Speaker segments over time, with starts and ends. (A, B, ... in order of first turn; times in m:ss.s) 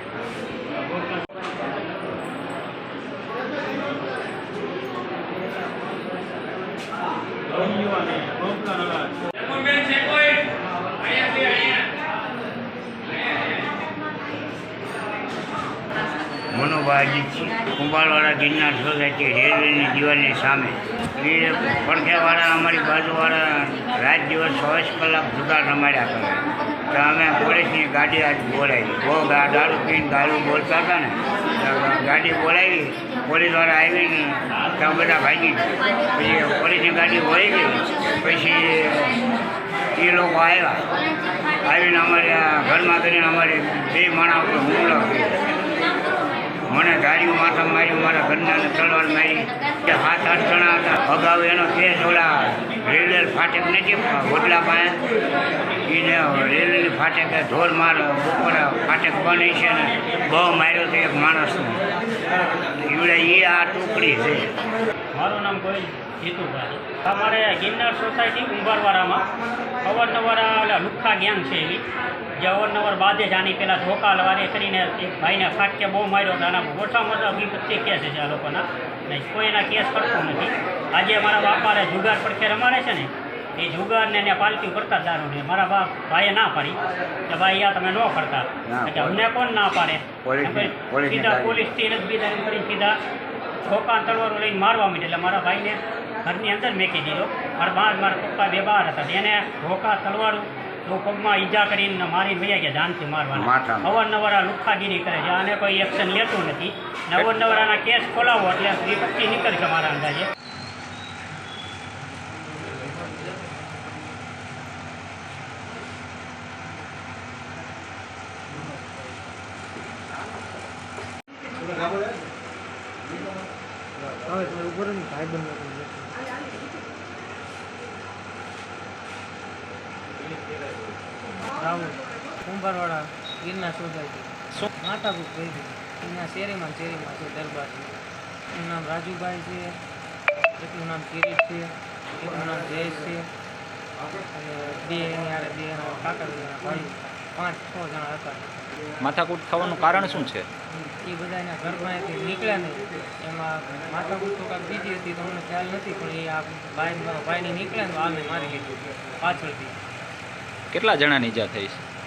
0:00.8-0:01.3 A
0:07.5-0:09.2 A
0:16.5-0:39.2 B
0:40.0-0:40.8 B
0:41.6-0:45.4 B
0:46.7-0:55.0 B
0:55.9-1:01.8 B
1:02.9-1:04.5 B
1:05.2-1:09.3 A
1:09.8-1:11.8 A
1:12.4-1:33.0 A
1:28.7-1:29.3 B
1:30.2-1:31.7 B
1:33.6-1:50.3 A
1:43.3-1:44.0 B
2:04.3-2:06.2 C
2:11.5-2:18.0 C
2:18.5-2:19.8 C
2:20.6-2:23.3 C
2:24.3-2:28.8 C
2:29.0-2:30.5 D
2:30.8-2:39.8 C
2:40.7-2:41.8 D